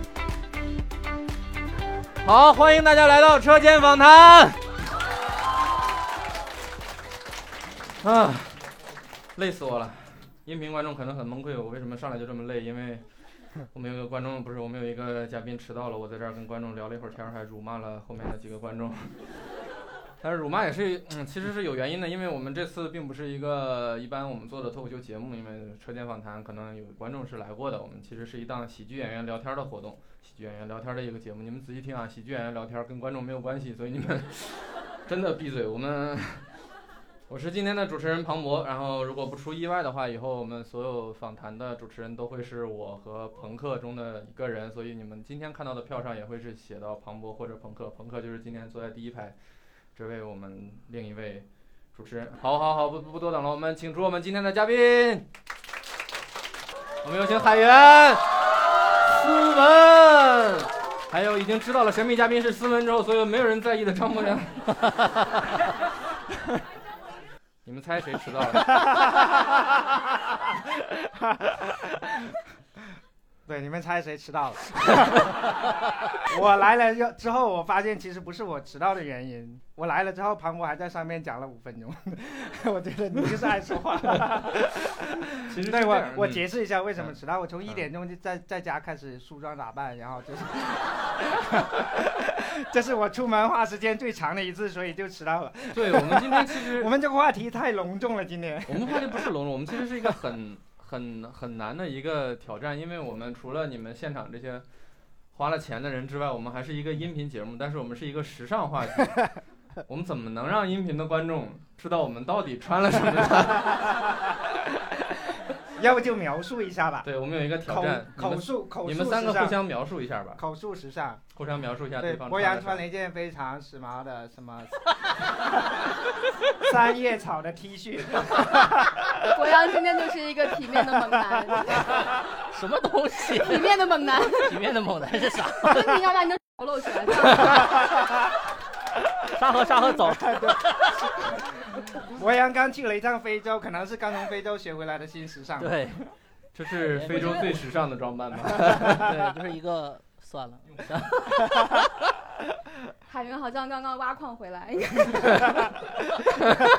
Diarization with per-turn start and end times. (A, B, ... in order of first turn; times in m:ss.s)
0:02.2-0:04.6 A
0:08.0-0:08.6 A
0:09.4-0:13.0 A
0:13.7-0:19.2 A
0:20.2-0:36.4 A
0:37.3-0:49.4 A
0:49.9-0:55.3 A
0:57.0-0:58.4 A
0:58.9-1:05.2 A
1:07.7-1:09.0 A
1:11.3-1:12.4 B
1:13.5-1:15.4 B
1:16.1-1:39.1 B
1:25.4-1:26.4 A
1:35.7-1:36.9 A
1:38.7-1:44.6 A
1:45.3-1:49.3 A
1:49.9-1:54.0 A
1:55.8-1:57.1 B
1:57.0-2:00.4 A
1:57.6-1:59.6 B
2:00.4-2:01.2 B
2:01.3-2:02.8 A
2:02.0-2:05.8 B
2:06.5-2:09.0 B
2:09.2-2:12.1 C
2:12.5-2:13.7 D
2:13.3-2:14.6 C
2:14.2-2:16.2 D
2:15.5-2:17.9 C
2:17.3-2:17.7 D
2:19.3-2:21.2 D
2:22.0-2:26.0 B
2:25.6-2:26.0 D
2:26.6-2:29.2 A
2:26.9-2:27.6 D
2:28.8-2:31.9 D
2:33.1-2:35.7 C